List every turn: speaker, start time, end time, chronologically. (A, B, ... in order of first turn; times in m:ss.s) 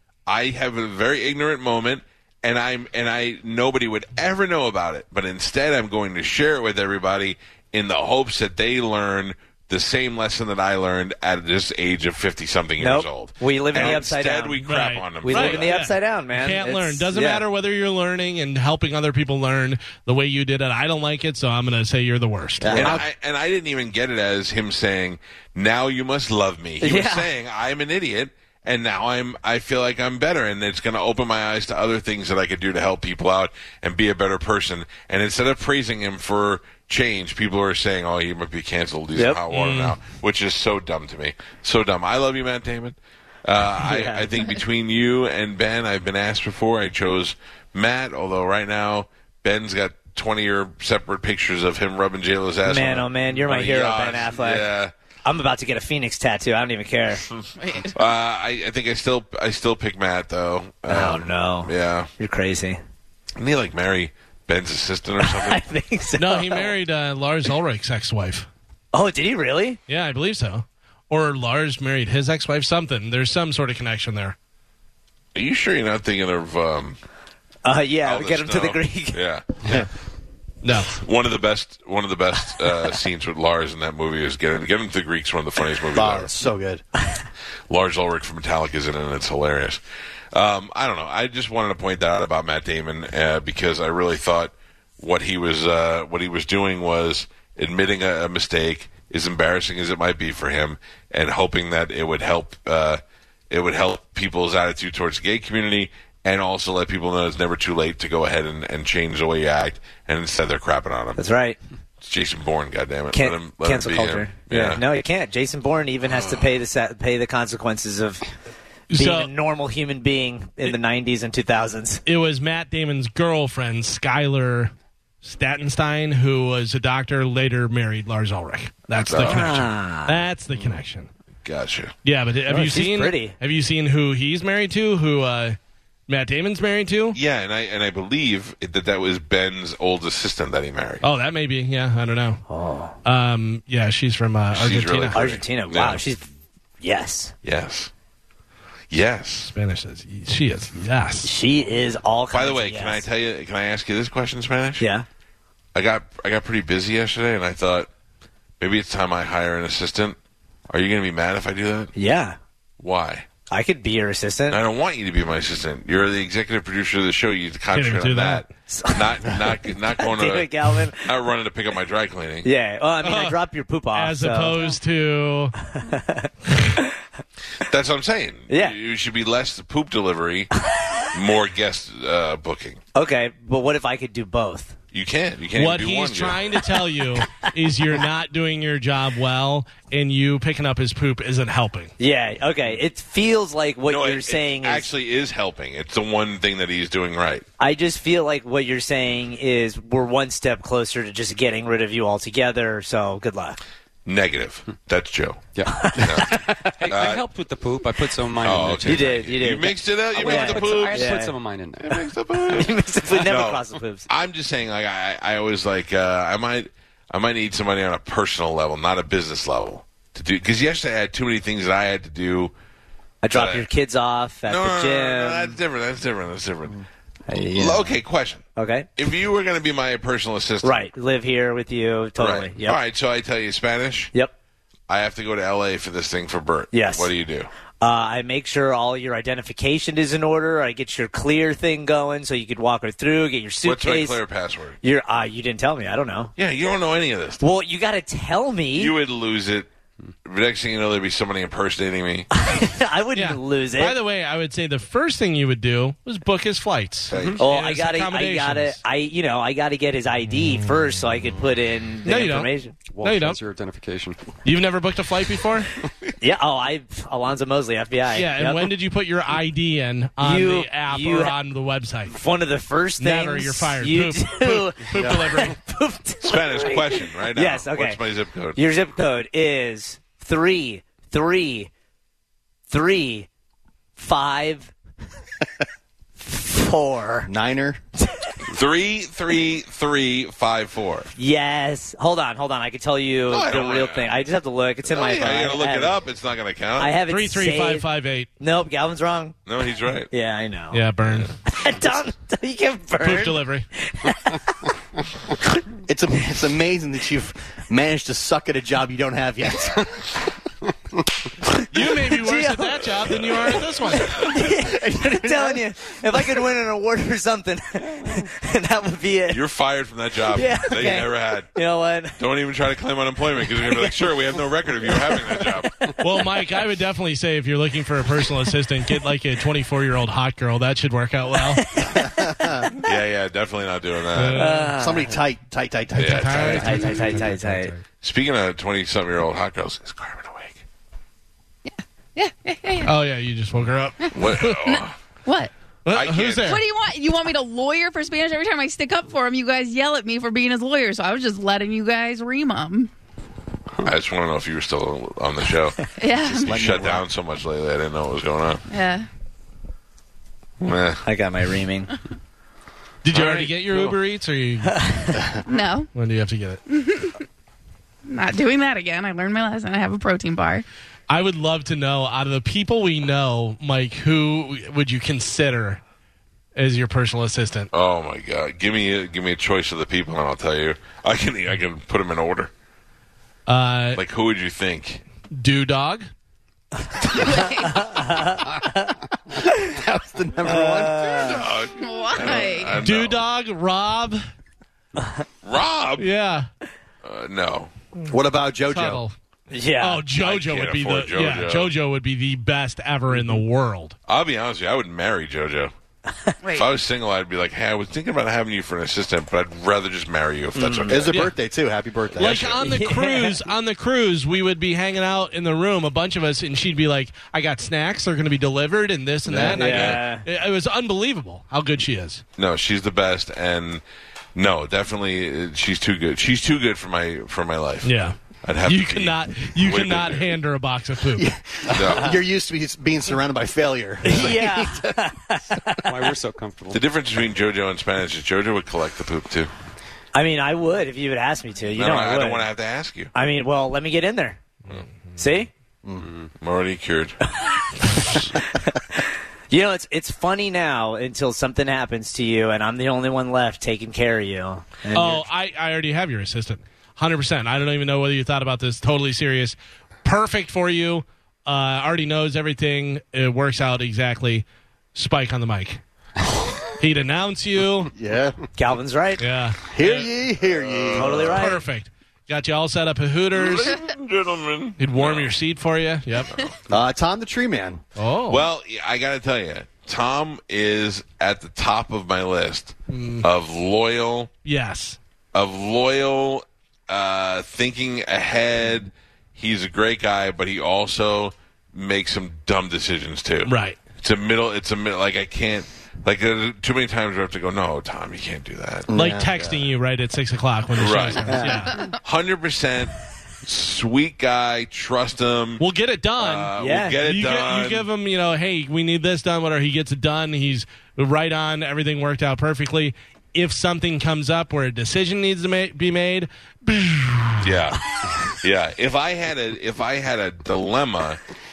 0:00.3-0:15.7 A
0:12.8-0:14.6 B
0:14.6-0:22.9 C
0:15.2-0:17.4 B
0:22.6-0:23.0 D
0:22.7-0:23.0 B
0:22.7-0:54.9 A
0:26.8-0:27.3 B
0:39.2-0:39.6 B
0:43.8-0:44.3 B
0:52.6-0:54.7 B
0:55.2-0:57.2 B
0:57.3-1:02.1 A
0:57.6-0:58.0 E
1:00.9-1:02.8 B
1:03.4-1:05.6 A
1:05.2-1:06.7 B
1:06.2-1:08.5 C
1:08.9-1:09.8 B
1:09.9-1:14.4 C
1:15.4-1:17.0 A
1:17.6-1:19.2 B
1:18.0-1:19.9 A
1:20.6-1:21.0 C
1:20.9-1:26.3 A
1:26.0-1:26.8 D
1:27.7-1:29.8 A
1:30.3-1:51.2 A
1:51.2-1:51.6 B
1:52.0-1:54.8 A
1:53.1-1:58.2 B
1:58.9-1:59.3 C
1:58.9-2:02.0 B
2:02.1-2:04.7 C
2:05.2-2:11.1 C
2:09.0-2:09.7 A
2:09.2-2:10.2 B
2:11.4-2:11.9 A
2:12.0-2:15.6 C
2:12.5-2:13.4 B
2:16.1-2:17.2 C
2:17.2-2:21.0 A
2:21.0-2:22.4 C
2:22.5-2:23.0 B
2:23.0-2:25.3 C
2:24.5-2:26.0 A
2:25.1-2:26.3 B
2:26.8-2:27.3 B
2:27.4-2:27.9 A
2:28.9-2:29.5 A
2:29.5-2:31.3 C
2:31.2-2:33.0 B
2:32.3-2:34.9 A
2:34.8-2:35.1 B
2:35.8-2:37.9 A
2:38.6-2:40.2 A
2:40.7-2:41.9 A
2:42.0-2:42.4 B
2:42.8-2:43.3 A
2:43.5-2:44.6 B
2:44.5-2:52.5 A
2:47.8-2:48.5 C
2:48.7-2:51.1 B
2:52.4-2:54.7 B
2:53.0-2:53.4 C
2:53.9-2:55.6 C
2:55.6-2:56.9 B
2:57.6-3:00.5 A
2:58.5-2:58.8 B
3:00.7-3:01.0 B
3:01.1-3:02.8 A
3:02.9-3:04.8 B
3:04.9-3:06.5 A
3:05.6-3:11.9 C
3:12.0-3:14.9 B
3:13.9-3:17.5 A
3:17.6-3:23.6 B
3:24.1-3:27.2 A
3:25.5-3:29.2 F
3:25.7-3:26.4 B
3:28.4-3:31.2 A
3:28.8-3:31.3 B
3:30.1-3:32.1 F
3:31.8-3:42.5 A
3:32.4-3:34.1 B
3:43.2-3:45.6 B
3:43.3-3:43.6 A
3:44.5-3:46.8 A
3:47.3-3:48.0 B
3:47.6-3:48.4 A
3:48.6-3:48.9 B
3:49.0-3:50.8 A
3:50.6-3:52.8 B
3:52.2-3:54.1 A
3:54.9-3:57.5 A
3:56.7-3:57.1 B
3:57.8-4:04.2 B
4:03.6-4:04.8 A
4:04.8-4:06.3 B
4:06.4-4:07.4 A
4:07.4-4:08.9 B
4:08.8-4:09.7 A
4:10.2-4:12.3 A
4:12.3-4:14.0 B
4:13.2-4:18.8 C
4:17.1-4:17.4 A
4:17.1-4:17.4 F
4:17.4-4:23.2 B
4:20.4-4:20.8 C
4:22.0-4:22.5 C
4:22.9-4:24.2 F
4:23.0-4:23.4 C
4:24.4-4:25.7 C
4:26.2-4:28.7 B
4:28.1-4:32.2 C
4:30.2-4:31.4 B
4:32.1-4:38.0 B
4:33.0-4:35.6 C
4:35.0-4:35.2 D
4:36.2-4:38.6 A
4:38.6-4:41.7 B
4:42.7-4:43.3 B
4:44.0-4:44.7 B
4:46.2-4:47.3 B
4:47.3-4:47.8 D
4:48.0-4:48.3 B
4:48.5-4:51.1 A
4:51.2-4:56.0 B
4:53.3-4:54.1 A
4:54.9-4:57.0 A
4:56.8-4:57.9 B
4:57.1-4:58.3 C
4:58.4-4:59.4 B
4:59.5-5:00.1 A
5:00.1-5:00.8 B
5:00.7-5:01.3 C
5:01.5-5:04.4 B
5:03.0-5:03.6 C
5:05.9-5:10.1 D
5:11.7-5:14.2 C
5:12.0-5:19.4 B
5:12.9-5:13.7 A
5:14.2-5:15.6 D
5:19.3-5:21.5 A
5:20.3-5:22.2 B
5:22.2-5:25.9 A
5:23.7-5:23.9 B
5:24.9-5:25.5 B
5:26.0-5:31.6 C
5:31.5-5:32.4 B
5:31.9-5:32.7 D
5:32.8-5:34.5 A
5:34.2-5:34.8 C
5:34.4-5:35.2 B
5:34.8-5:37.2 D
5:36.0-5:36.8 A
5:36.0-5:37.8 C
5:36.5-5:37.7 B
5:38.0-5:40.6 A
5:41.7-5:42.9 E
5:42.8-5:44.6 C
5:44.1-5:45.0 A
5:44.8-5:45.5 E
5:45.8-5:46.6 C
5:45.9-5:46.6 A
5:46.4-5:52.9 E
5:53.8-5:58.6 A
5:56.0-5:56.6 E
5:56.4-5:57.0 D
5:58.7-5:59.1 E
6:00.6-6:01.0 A
6:01.0-6:01.9 B
6:03.0-6:04.9 C
6:03.1-6:04.0 A
6:04.7-6:05.2 B
6:05.5-6:05.9 E
6:05.9-6:06.6 C
6:06.7-6:07.2 E
6:08.1-6:10.6 E
6:11.1-6:15.8 C
6:16.6-6:17.7 C
6:17.7-6:22.5 A
6:23.5-6:24.0 C
6:24.0-6:25.0 A
6:25.4-6:26.1 C
6:27.2-6:27.9 E
6:27.2-6:28.9 B
6:29.5-6:31.2 D
6:30.4-6:31.4 B
6:31.1-6:33.2 A
6:31.8-6:32.8 E
6:32.8-6:34.2 C
6:35.4-6:36.1 A
6:36.0-6:36.5 C
6:37.0-6:37.7 A
6:38.1-6:39.0 D
6:38.7-6:39.2 C
6:39.5-6:40.0 B
6:39.8-6:44.0 C
6:40.2-6:41.7 A
6:44.1-6:45.7 A
6:46.4-6:46.7 E
6:46.5-6:51.2 A
6:50.6-6:51.1 B
6:50.9-6:52.6 D
6:52.1-6:52.6 A
6:52.2-7:02.2 C
6:52.6-6:53.4 B
6:59.3-7:00.2 B
6:59.3-6:59.8 D
6:59.6-7:00.0 A
7:02.4-7:03.8 A
7:04.4-7:10.3 A
7:07.8-7:11.3 C
7:11.2-7:14.9 D
7:11.7-7:12.2 A
7:14.0-7:15.8 B
7:15.9-7:16.8 F
7:16.7-7:19.5 A
7:20.1-7:22.5 B
7:21.8-7:23.1 A
7:23.1-7:24.4 B
7:25.2-7:25.5 B
7:25.8-7:26.1 D
7:26.0-7:26.3 F
7:26.4-7:27.2 A
7:27.3-7:27.6 B
7:28.4-7:35.2 B
7:34.9-7:45.8 C
7:46.8-7:47.9 C
7:48.0-7:48.4 D
7:48.6-7:49.2 B
7:49.2-7:50.1 C
7:49.6-7:51.4 D
7:50.8-7:51.2 A
7:50.9-7:51.6 B
7:51.2-7:53.8 C
7:53.3-7:55.3 A
7:54.8-7:56.4 C
7:56.7-7:57.8 D
7:58.0-7:58.4 C
7:58.3-8:04.3 A
8:02.9-8:03.3 C
8:04.4-8:05.0 C
8:05.3-8:18.9 A
8:13.5-8:13.8 C
8:18.9-8:19.6 D
8:18.9-8:21.9 C
8:20.8-8:25.6 A
8:25.6-8:26.5 C
8:26.2-8:27.9 A
8:26.6-8:27.0 B
8:27.0-8:37.6 C
8:37.4-8:41.2 A